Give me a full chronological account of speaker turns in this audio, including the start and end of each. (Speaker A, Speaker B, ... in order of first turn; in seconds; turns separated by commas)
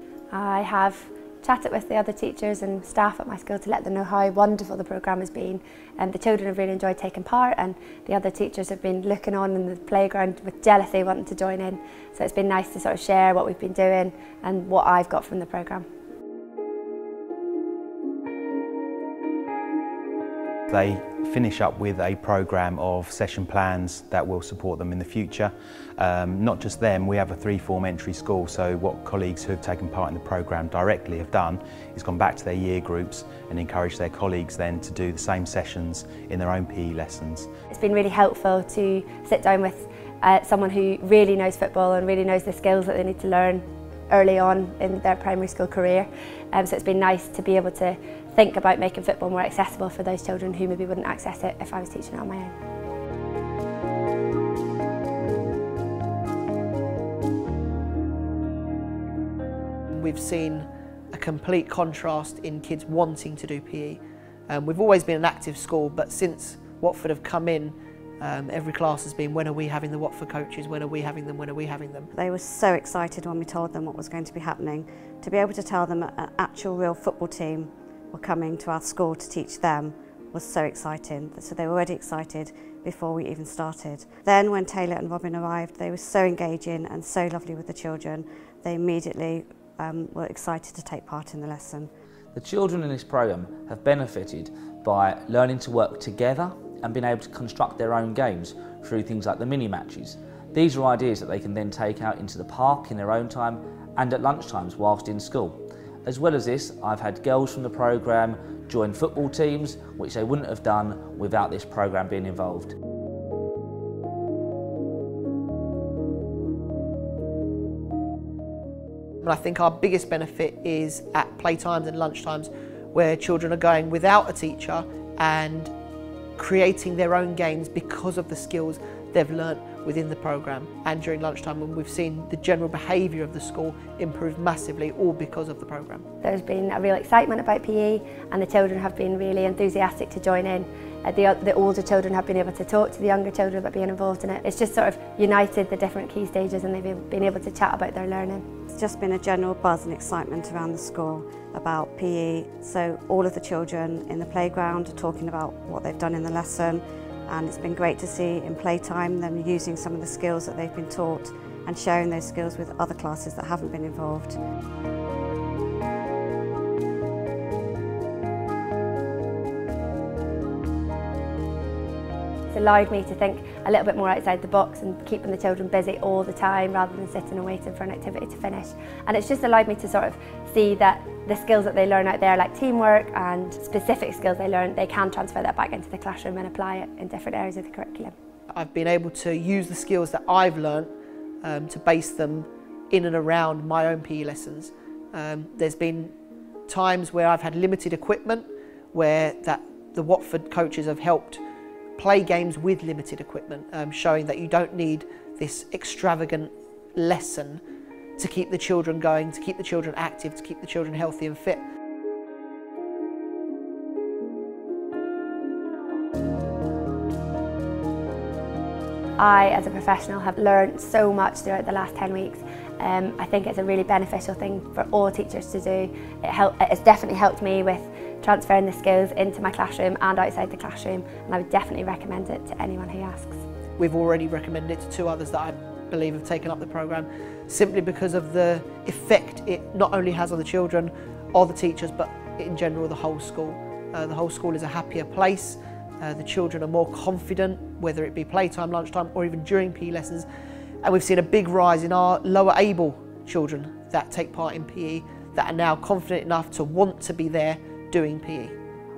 Speaker A: 0.3-15.8, Speaker B: 20.7-37.5, Speaker A: 37.7-52.5, Speaker C: 59.9-72.1, Speaker D: 72.1-91.9, Speaker E: 92.3-112.7, Speaker C: 119.2-125.7, Speaker C: 126.4-136.0, Speaker A: 136.2-148.4, Speaker D: 148.7-164.4, Speaker A: 172.5-188.1, Speaker C: 188.5-190.9, Speaker C: 191.4-196.1, Speaker C: 196.7-201.4, Speaker C: 202.0-207.6, Speaker C: 208.2-211.6, Speaker A: 219.2-233.4, Speaker C: 233.8-250.2, Speaker C: 250.8-258.6